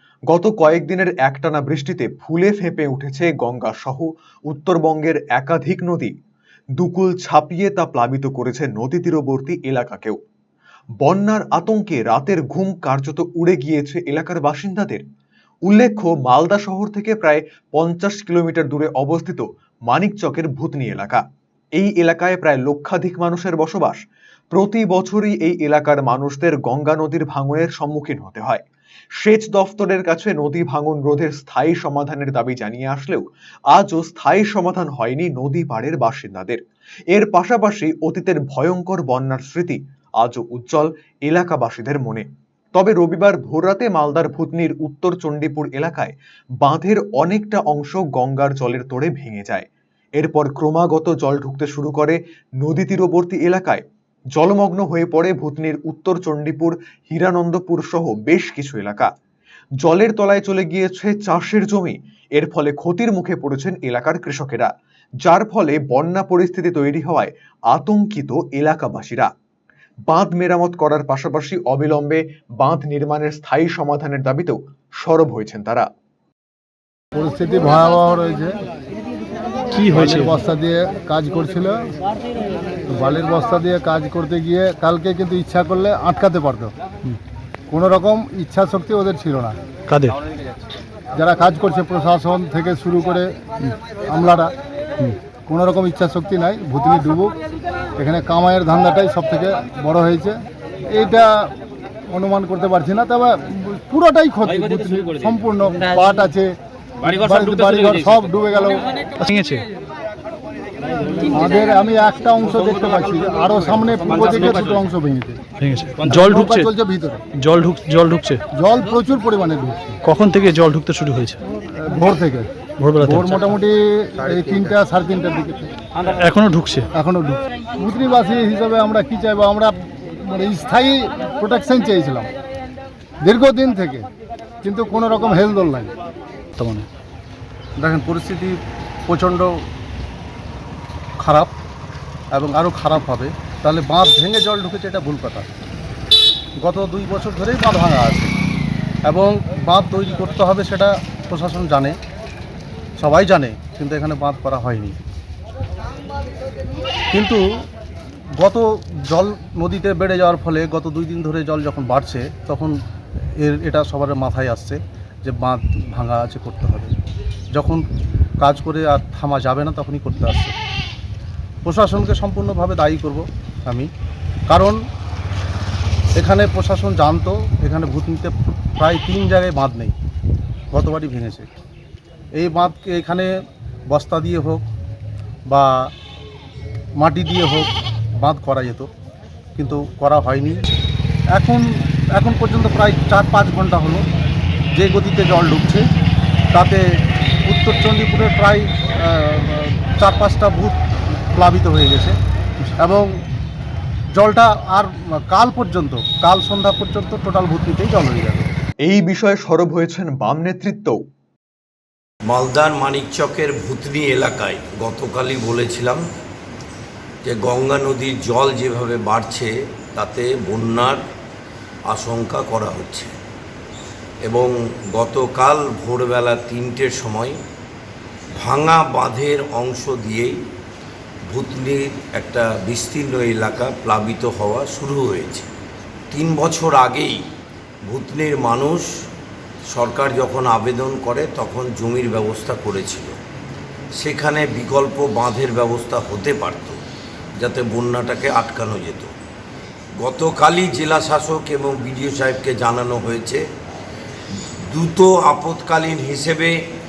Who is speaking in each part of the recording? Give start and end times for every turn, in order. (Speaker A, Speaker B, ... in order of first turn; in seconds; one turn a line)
Speaker A: 0.3-6.1
Speaker A: 6.8-10.2
Speaker A: 11.0-15.0
Speaker A: 15.7-21.2
Speaker A: 21.8-24.0
Speaker A: 24.5-28.6
Speaker A: 29.2-36.6
Speaker A: 37.1-53.8
Speaker A: 54.3-59.1
Speaker A: 59.8-64.7
Speaker A: 65.2-69.3
Speaker A: 70.1-75.9
Speaker B: 77.1-78.5
Speaker C: 79.7-80.4
Speaker B: 79.9-81.8
Speaker B: 82.9-86.7
Speaker B: 87.7-89.5
Speaker B: 91.2-93.3
Speaker B: 94.1-94.5
Speaker B: 95.5-97.3
Speaker B: 98.0-100.3
Speaker B: 100.9-101.5
Speaker B: 102.1-106.5
Speaker B: 107.1-108.8
Speaker C: 109.2-109.6
Speaker B: 111.3-115.4
Speaker C: 115.6-116.7
Speaker B: 116.3-117.2
Speaker C: 117.3-118.4
Speaker B: 118.5-119.9
Speaker C: 120.0-121.4
Speaker B: 121.8-122.5
Speaker C: 122.8-123.4
Speaker B: 123.0-125.7
Speaker C: 126.2-126.9
Speaker B: 126.9-132.3
Speaker B: 133.2-134.1
Speaker B: 134.6-135.9
Speaker C: 136.6-136.8
Speaker D: 137.8-138.5
Speaker D: 139.1-139.6
Speaker D: 141.2-141.6
Speaker D: 142.3-145.5
Speaker D: 146.6-148.3
Speaker D: 149.1-151.9
Speaker D: 153.0-155.0
Speaker D: 157.1-157.4
Speaker D: 158.3-162.8
Speaker D: 163.4-166.9
Speaker D: 167.5-167.8
Speaker D: 168.4-170.5
Speaker D: 171.6-173.9
Speaker D: 174.5-174.8
Speaker D: 176.2-179.9
Speaker D: 180.7-181.5
Speaker D: 182.3-184.6
Speaker D: 185.5-185.9
Speaker D: 187.0-188.9
Speaker D: 189.6-190.7
Speaker D: 191.3-191.6
Speaker D: 192.2-194.0
Speaker D: 194.7-195.8
Speaker D: 196.5-196.8
Speaker D: 197.4-202.2
Speaker D: 202.8-203.1
Speaker D: 204.1-208.5
Speaker A: 208.8-211.0
Speaker E: 212.3-216.0
Speaker E: 217.3-219.5
Speaker E: 220.0-221.0
Speaker E: 221.9-223.1
Speaker E: 224.3-227.3
Speaker E: 228.4-230.3
Speaker E: 231.3-235.4
Speaker E: 236.1-237.1
Speaker E: 237.9-238.8
Speaker E: 239.7-243.1
Speaker E: 244.0-246.8
Speaker E: 247.4-249.1
Speaker E: 250.0-253.4
Speaker E: 254.7-256.5